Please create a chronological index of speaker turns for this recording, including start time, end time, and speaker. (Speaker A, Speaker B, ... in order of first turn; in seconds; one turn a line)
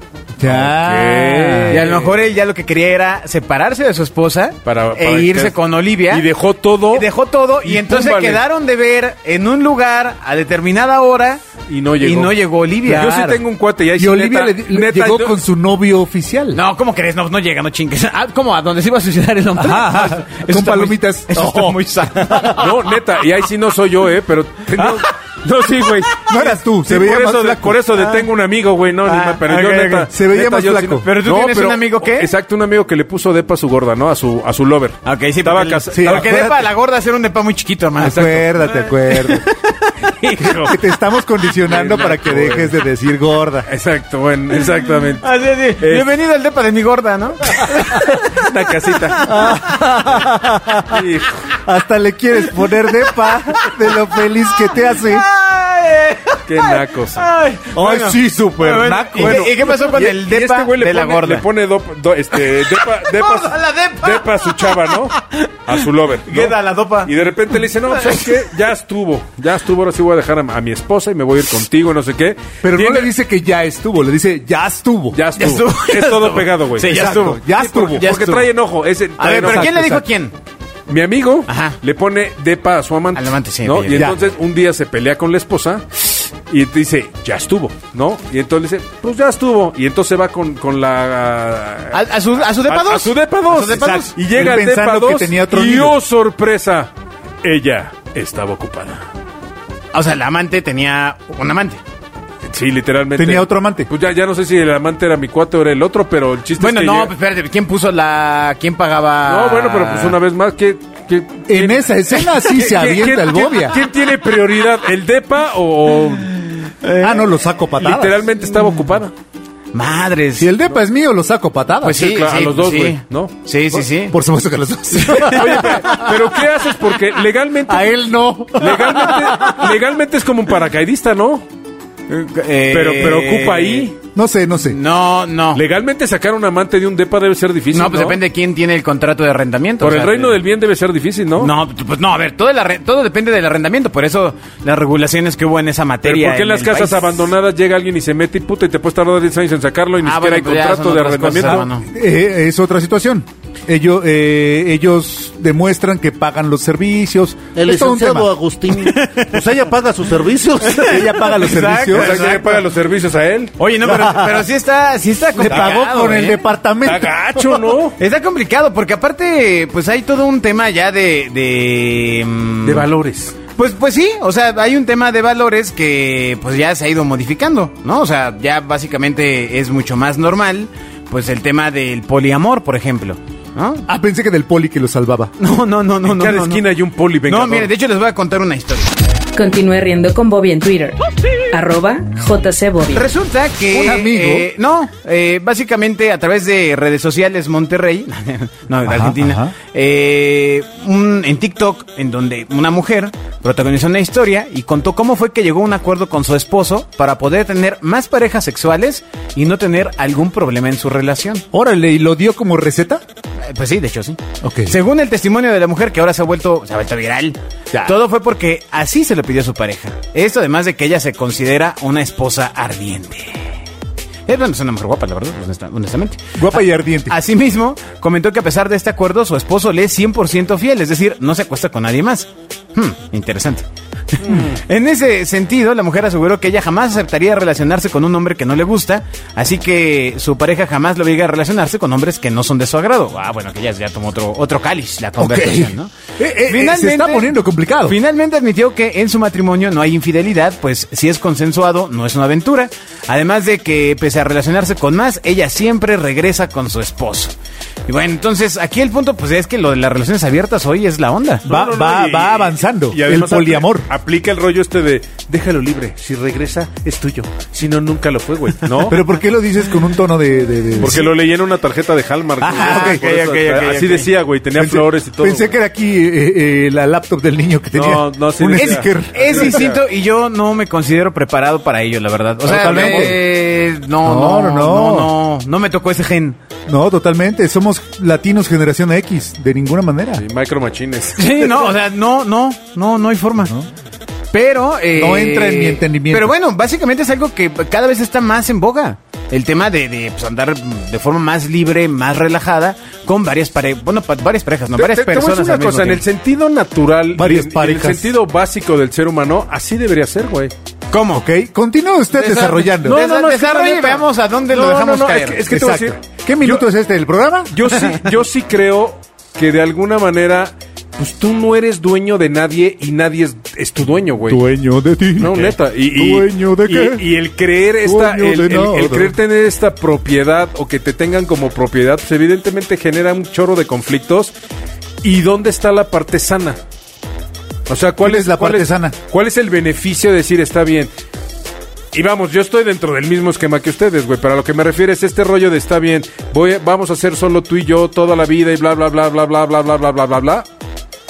Speaker A: 0.4-1.8
Speaker B: 0.4-2.2
Speaker C: 1.7-6.3
Speaker B: 4.6-7.1
Speaker C: 6.9-11.5
Speaker B: 7.6-8.4
Speaker B: 11.7-15.4
Speaker C: 12.0-13.4
Speaker A: 12.8-13.4
Speaker A: 13.9-16.6
Speaker C: 16.5-22.7
Speaker A: 19.5-22.6
Speaker B: 22.6-36.5
Speaker C: 24.8-25.1
Speaker A: 26.3-27.8
Speaker C: 27.9-28.2
Speaker C: 29.0-30.2
Speaker A: 30.1-31.1
Speaker C: 30.9-32.3
Speaker C: 35.0-40.6
Speaker A: 35.9-36.7
Speaker A: 38.0-39.4
Speaker B: 38.0-38.3
Speaker B: 40.4-40.8
Speaker A: 40.5-43.7
Speaker B: 41.7-42.8
Speaker B: 43.7-46.1
Speaker C: 45.2-50.0
Speaker B: 47.6-49.5
Speaker A: 49.2-51.0
Speaker B: 50.9-51.5
Speaker A: 51.6-55.2
Speaker C: 52.9-54.0
Speaker C: 54.7-61.5
Speaker B: 56.5-57.2
Speaker A: 57.7-59.5
Speaker B: 59.1-73.1
Speaker C: 62.4-65.7
Speaker C: 66.3-67.1
Speaker C: 67.8-68.3
Speaker A: 72.6-75.2
Speaker B: 75.1-79.9
Speaker C: 75.4-78.5
Speaker A: 76.8-78.1
Speaker C: 79.2-80.3
Speaker A: 79.3-80.0
Speaker B: 80.9-92.0
Speaker C: 81.5-81.8
Speaker C: 83.2-84.1
Speaker A: 83.9-84.2
Speaker C: 91.9-94.1
Speaker B: 92.6-96.9
Speaker A: 93.7-96.0
Speaker B: 97.4-99.0
Speaker C: 99.9-101.8
Speaker B: 102.5-107.1
Speaker A: 103.2-103.9
Speaker C: 106.6-110.2
Speaker B: 109.2-116.3
Speaker A: 111.5-113.8
Speaker C: 116.8-117.3
Speaker A: 117.0-118.2
Speaker B: 117.8-119.1
Speaker C: 119.7-120.5
Speaker A: 120.4-122.0
Speaker C: 121.8-124.2
Speaker B: 121.8-123.8
Speaker A: 124.1-126.1
Speaker C: 124.9-126.0
Speaker B: 125.2-128.0
Speaker A: 127.7-129.7
Speaker B: 128.5-131.4
Speaker C: 132.1-133.9
Speaker B: 132.7-133.9
Speaker A: 134.1-134.8
Speaker C: 134.7-135.6
Speaker B: 135.5-138.2
Speaker C: 137.7-140.4
Speaker B: 139.8-141.5
Speaker C: 141.4-147.3
Speaker B: 146.0-151.7
Speaker C: 150.0-151.9
Speaker A: 151.4-158.5
Speaker D: 157.6-160.6
Speaker C: 158.7-159.5
Speaker C: 160.6-162.7
Speaker A: 160.6-162.2
Speaker B: 161.6-163.6
Speaker C: 163.6-166.4
Speaker A: 163.8-164.5
Speaker A: 165.4-167.5
Speaker B: 165.4-165.7
Speaker B: 166.8-168.0
Speaker C: 168.0-172.8
Speaker B: 172.6-173.4
Speaker C: 173.5-183.8
Speaker A: 183.9-185.3
Speaker C: 185.4-186.6
Speaker B: 186.0-187.7
Speaker C: 187.2-188.9
Speaker E: 189.3-191.0
Speaker E: 191.5-193.1
Speaker C: 192.9-211.4
Speaker A: 193.7-194.5
Speaker A: 198.8-199.5
Speaker A: 211.5-213.0
Speaker C: 213.4-223.5
Speaker A: 214.4-214.8
Speaker A: 217.7-218.0
Speaker C: 224.3-247.3
Speaker A: 226.3-227.2
Speaker B: 234.2-234.6
Speaker A: 245.2-248.0
Speaker C: 247.8-257.3
Speaker C: 257.9-261.5
Speaker A: 261.4-263.9
Speaker B: 261.4-269.0
Speaker A: 268.9-271.1
Speaker B: 270.8-275.5
Speaker A: 272.4-273.0
Speaker C: 272.4-274.1
Speaker A: 274.6-279.7
Speaker B: 277.7-279.8
Speaker C: 278.5-286.4
Speaker B: 282.4-283.2
Speaker A: 282.4-283.3
Speaker A: 284.0-285.1
Speaker A: 286.7-290.2
Speaker B: 290.2-291.7
Speaker C: 291.1-293.5
Speaker A: 293.4-293.7
Speaker C: 294.3-306.0
Speaker A: 294.9-296.3
Speaker B: 304.7-310.5
Speaker A: 307.1-308.1
Speaker C: 310.9-311.2
Speaker A: 311.1-313.0
Speaker C: 312.1-315.4
Speaker B: 312.8-316.7
Speaker A: 315.5-317.7
Speaker B: 317.5-324.4
Speaker A: 324.2-327.0
Speaker B: 325.2-334.3
Speaker A: 327.8-329.1
Speaker B: 335.0-336.6
Speaker B: 337.7-340.9
Speaker A: 338.0-338.9
Speaker B: 341.9-350.4